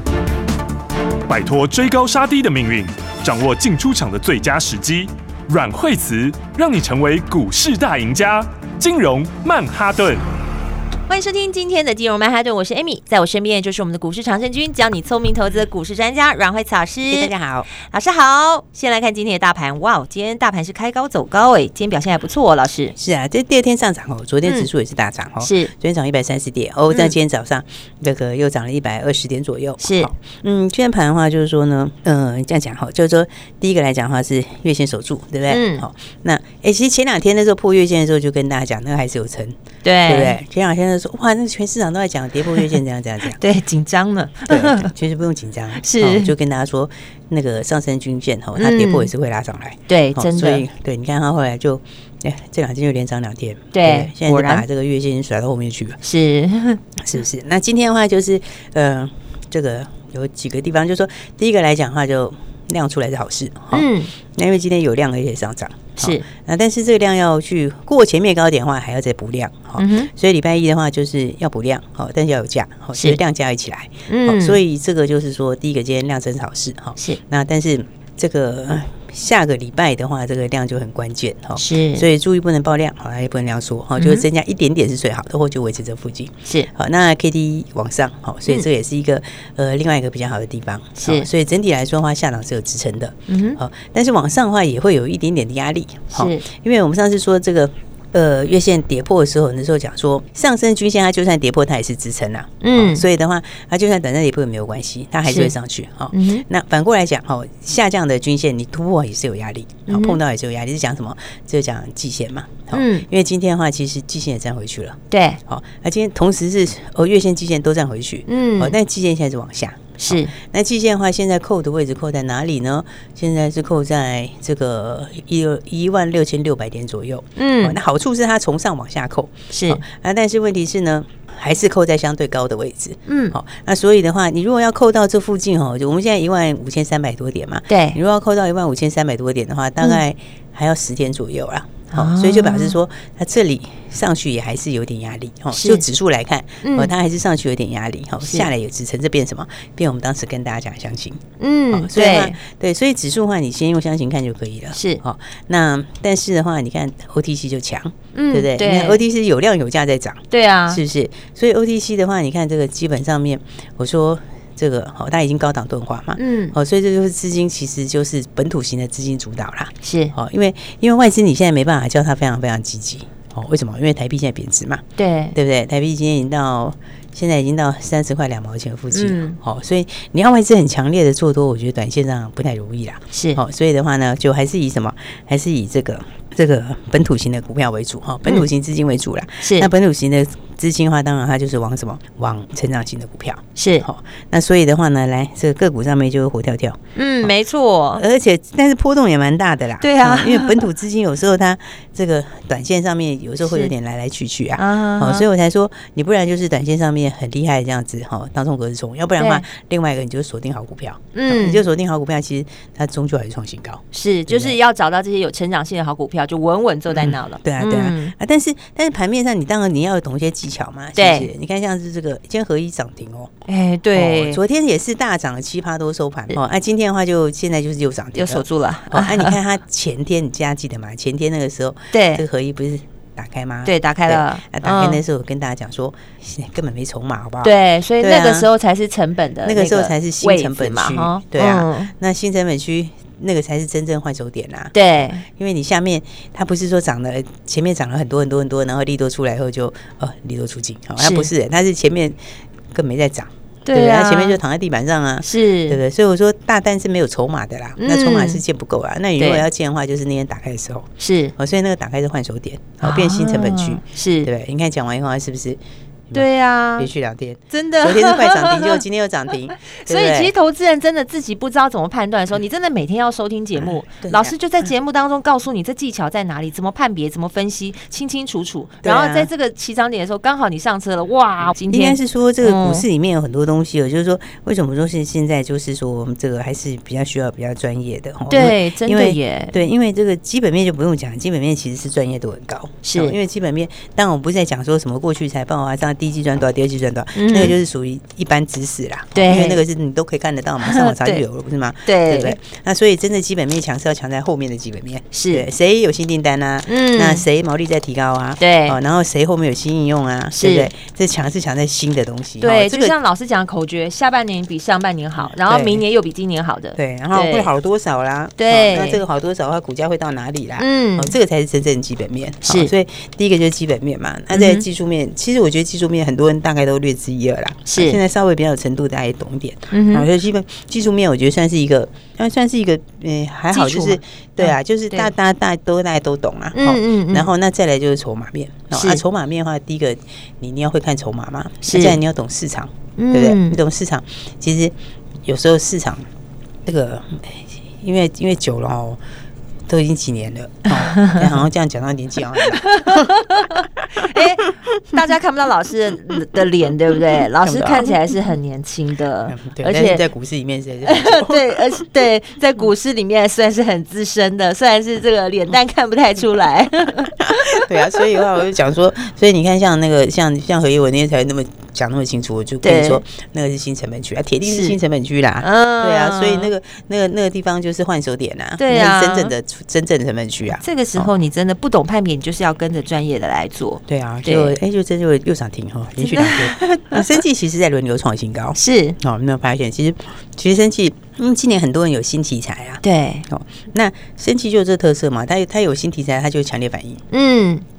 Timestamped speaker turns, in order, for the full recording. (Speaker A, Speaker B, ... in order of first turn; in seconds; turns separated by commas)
Speaker A: 1.3-10.2, Speaker B: 11.1-22.9, Speaker C: 17.1-17.7, Speaker C: 22.9-43.4, Speaker B: 25.4-25.7, Speaker B: 29.8-30.1, Speaker B: 35.5-35.8, Speaker B: 39.8-40.4, Speaker B: 43.4-44.9, Speaker C: 44.5-56.0, Speaker B: 45.8-46.3, Speaker B: 48.6-49.1, Speaker B: 49.9-50.6, Speaker B: 53.7-54.6, Speaker B: 56.0-56.8, Speaker C: 57.0-197.3, Speaker B: 63.7-64.1, Speaker B: 66.0-66.2, Speaker B: 69.8-70.1, Speaker B: 74.1-74.6, Speaker B: 81.6-82.0, Speaker B: 84.0-84.2, Speaker B: 91.0-91.3, Speaker B: 93.3-93.6, Speaker B: 96.1-96.4, Speaker B: 102.6-103.0, Speaker B: 105.2-105.5, Speaker B: 106.1-106.4, Speaker B: 109.9-110.2, Speaker B: 112.7-113.0, Speaker B: 115.1-115.4, Speaker B: 118.3-118.7, Speaker B: 120.0-120.3, Speaker B: 127.4-127.8, Speaker B: 129.5-129.8, Speaker B: 133.1-133.3, Speaker B: 137.7-138.0, Speaker B: 141.9-142.8, Speaker B: 145.5-145.8, Speaker B: 146.6-146.9, Speaker B: 148.2-148.5, Speaker B: 151.4-152.4, Speaker B: 154.7-155.0, Speaker B: 158.1-159.0, Speaker B: 160.3-160.8, Speaker B: 166.2-166.5, Speaker B: 169.8-170.1, Speaker B: 175.0-175.3, Speaker B: 178.9-179.4, Speaker B: 183.1-183.4, Speaker B: 189.4-189.7, Speaker B: 193.6-193.8, Speaker B: 196.9-198.0, Speaker C: 197.9-214.6, Speaker B: 199.8-200.7, Speaker B: 203.4-203.7, Speaker B: 204.6-205.2, Speaker B: 209.2-209.4, Speaker B: 211.1-211.6, Speaker B: 213.9-218.1, Speaker C: 216.9-223.3, Speaker B: 220.9-221.3, Speaker B: 223.5-224.4, Speaker C: 223.9-238.5, Speaker B: 228.1-229.4, Speaker B: 231.9-232.2, Speaker B: 233.6-235.0, Speaker B: 237.4-241.9, Speaker C: 239.4-244.7, Speaker B: 244.7-245.2, Speaker C: 245.2-252.2, Speaker B: 251.0-251.3, Speaker C: 252.7-266.2, Speaker B: 253.6-254.4, Speaker B: 255.2-255.8, Speaker B: 257.8-258.4, Speaker B: 259.2-259.4, Speaker B: 261.0-261.3, Speaker B: 262.8-264.3, Speaker B: 266.1-266.9, Speaker C: 266.8-270.3, Speaker B: 267.5-268.8, Speaker B: 269.7-282.9, Speaker C: 273.6-274.3, Speaker C: 278.8-279.3, Speaker C: 281.7-312.9, Speaker B: 288.3-289.6, Speaker B: 292.8-293.2, Speaker B: 297.1-297.6, Speaker B: 299.1-299.6, Speaker B: 300.6-301.2, Speaker B: 301.8-302.4, Speaker B: 305.1-305.4, Speaker B: 306.7-307.2, Speaker B: 308.4-308.8, Speaker B: 310.3-310.7, Speaker B: 312.4-317.5, Speaker C: 315.2-315.8, Speaker C: 316.8-346.1, Speaker B: 318.4-319.0, Speaker B: 320.6-321.1, Speaker B: 322.4-322.7, Speaker B: 324.3-324.6, Speaker B: 327.7-328.0, Speaker B: 329.7-330.1, Speaker B: 333.5-335.1, Speaker B: 336.5-337.3, Speaker B: 338.7-339.0, Speaker B: 341.6-342.0, Speaker B: 343.0-343.6, Speaker C: 346.6-349.0, Speaker C: 349.7-353.1, Speaker B: 350.9-351.2, Speaker B: 352.6-360.0, Speaker C: 357.4-357.9, Speaker C: 359.3-361.8, Speaker B: 360.8-368.0, Speaker C: 367.2-381.1, Speaker B: 372.6-373.0, Speaker B: 374.4-374.8, Speaker B: 375.4-376.5, Speaker B: 378.6-379.3, Speaker B: 380.5-384.6, Speaker C: 383.9-397.0, Speaker B: 386.0-387.1, Speaker B: 388.6-389.0, Speaker B: 392.8-393.2, Speaker B: 397.1-397.6